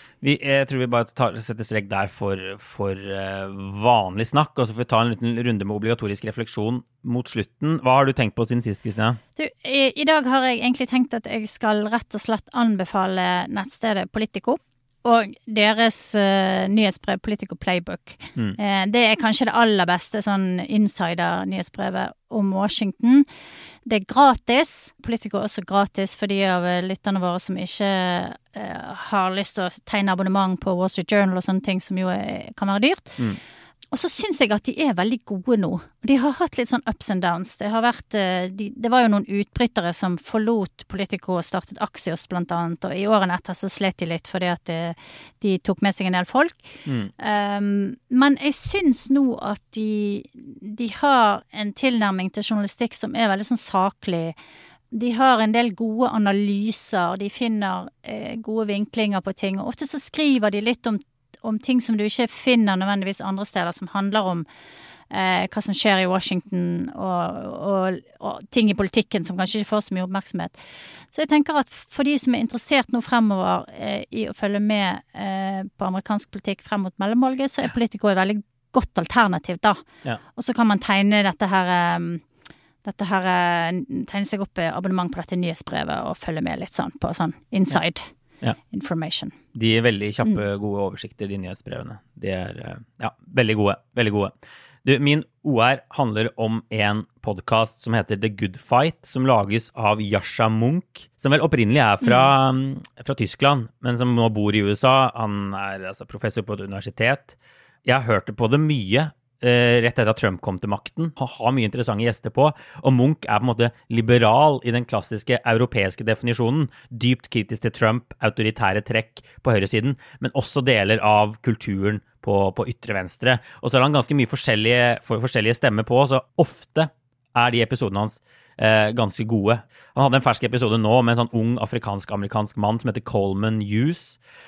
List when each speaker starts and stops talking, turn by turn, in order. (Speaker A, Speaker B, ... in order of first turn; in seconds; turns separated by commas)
Speaker A: 0.2-9.2, Speaker B: 9.4-23.2, Speaker B: 23.9-33.2, Speaker B: 33.9-54.4, Speaker A: 46.9-47.1, Speaker B: 54.9-64.5, Speaker B: 65.1-70.6, Speaker B: 71.1-79.8, Speaker B: 80.4-82.2, Speaker B: 82.8-88.1, Speaker B: 88.7-89.4, Speaker A: 89.5-134.2, Speaker B: 102.0-102.3